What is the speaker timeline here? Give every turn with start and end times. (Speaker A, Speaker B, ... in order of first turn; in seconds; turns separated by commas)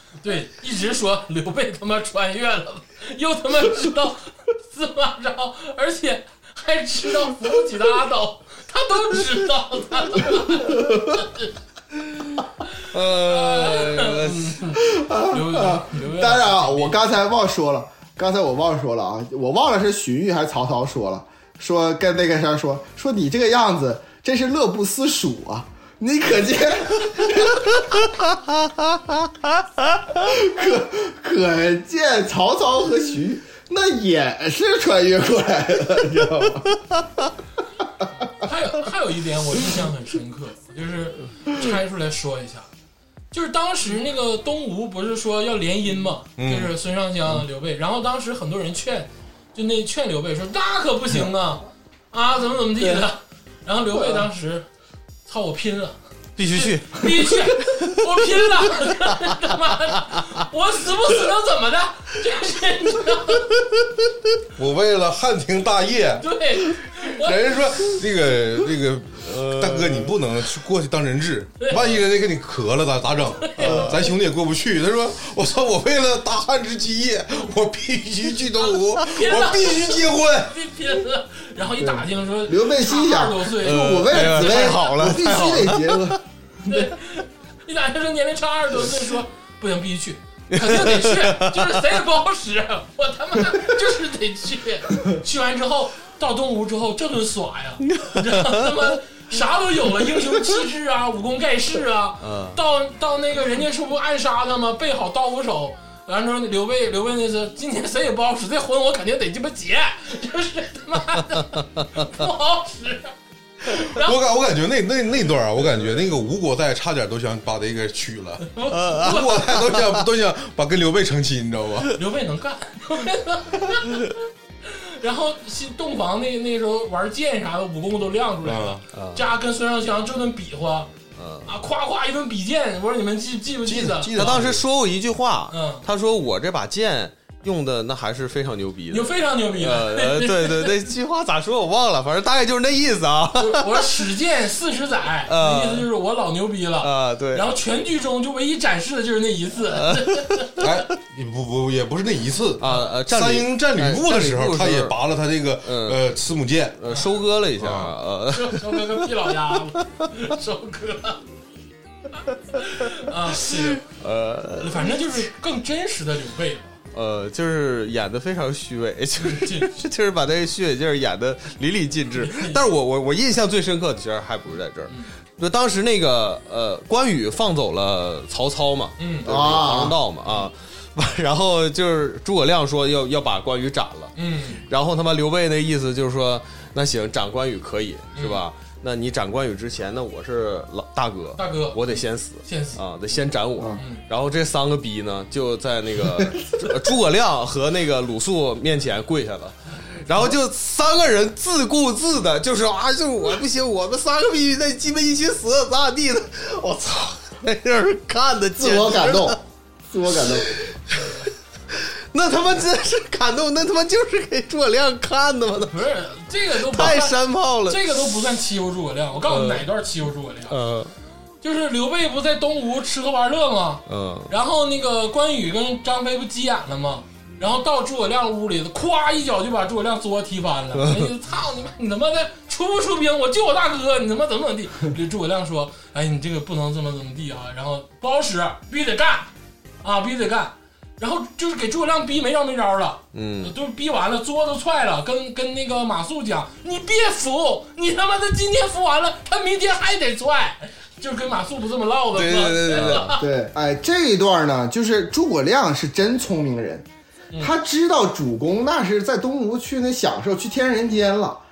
Speaker A: 0.2-11.5, Speaker B: 10.7-11.0, Speaker C: 12.9-14.6, Speaker A: 13.2-17.0, Speaker B: 14.8-28.1, Speaker B: 30.1-36.8, Speaker A: 38.4-42.7, Speaker A: 43.3-54.6, Speaker D: 46.4-46.7, Speaker A: 55.2-56.0, Speaker C: 56.4-58.9, Speaker A: 56.5-63.5, Speaker D: 64.5-80.5, Speaker A: 66.2-67.5, Speaker C: 69.2-70.4, Speaker A: 71.6-71.9, Speaker A: 73.6-73.9, Speaker C: 73.6-74.1, Speaker A: 78.6-84.7, Speaker B: 81.8-86.2, Speaker C: 83.6-86.2, Speaker A: 86.6-114.2, Speaker C: 90.5-91.8, Speaker C: 97.9-98.8, Speaker C: 102.2-102.6, Speaker D: 113.9-122.0, Speaker A: 118.4-119.5, Speaker C: 118.7-120.0, Speaker A: 121.9-124.1, Speaker A: 124.6-130.9, Speaker D: 128.4-128.8, Speaker C: 128.9-129.3, Speaker C: 131.2-131.5, Speaker A: 131.4-134.3, Speaker D: 133.6-134.6, Speaker C: 134.1-144.1, Speaker A: 135.5-135.8, Speaker A: 138.9-140.8, Speaker A: 143.3-150.6, Speaker C: 145.3-145.9, Speaker C: 146.8-147.5, Speaker C: 149.7-150.6, Speaker D: 150.6-156.8, Speaker C: 152.6-155.0, Speaker C: 155.6-156.0, Speaker C: 156.8-159.1, Speaker D: 157.6-157.9, Speaker A: 158.3-161.2, Speaker A: 162.5-163.8, Speaker C: 163.4-165.1, Speaker A: 164.6-166.7, Speaker C: 166.9-209.4, Speaker A: 169.2-169.7, Speaker A: 172.2-172.6, Speaker A: 179.0-179.3, Speaker B: 179.2-180.0, Speaker A: 184.2-184.6, Speaker A: 188.1-188.4, Speaker A: 191.3-191.8, Speaker A: 192.4-192.8, Speaker B: 208.6-210.6, Speaker C: 210.1-215.8, Speaker A: 210.9-211.3, Speaker A: 215.7-220.6, Speaker C: 216.5-218.2, Speaker C: 219.3-219.7, Speaker C: 220.5-220.9, Speaker A: 221.4-239.3, Speaker C: 223.9-224.3, Speaker C: 230.8-231.1, Speaker A: 239.8-253.2, Speaker C: 243.1-243.5, Speaker C: 252.1-253.1, Speaker B: 252.9-256.9, Speaker B: 257.4-261.4